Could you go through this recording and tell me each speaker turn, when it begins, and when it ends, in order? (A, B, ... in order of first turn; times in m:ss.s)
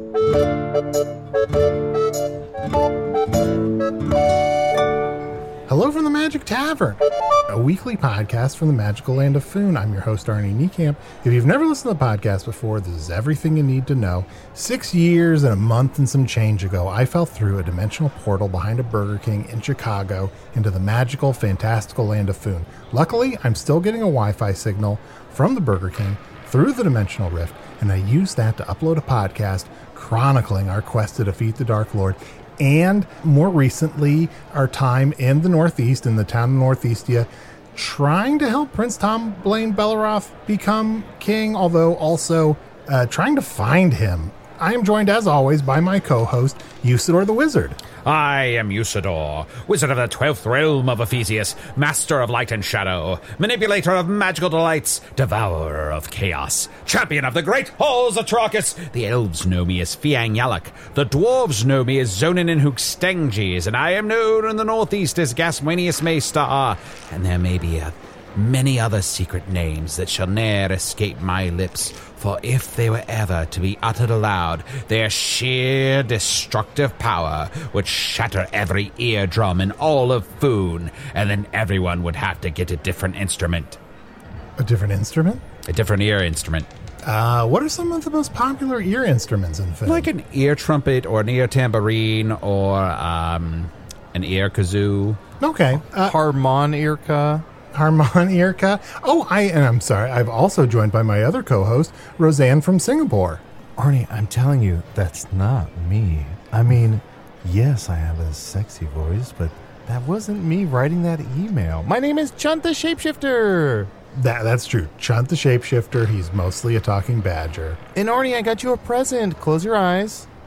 0:05.7-0:47.8 A
0:48.0-1:23.8 B
1:24.6-1:25.4 A
1:25.7-1:26.7 B
1:27.0-1:30.1 A
1:29.9-1:35.2 B
1:35.4-1:36.2 A
1:35.9-1:37.4 C
1:37.7-1:43.4 A
1:43.8-1:53.9 C
1:54.1-1:57.8 A
1:58.0-2:00.3 C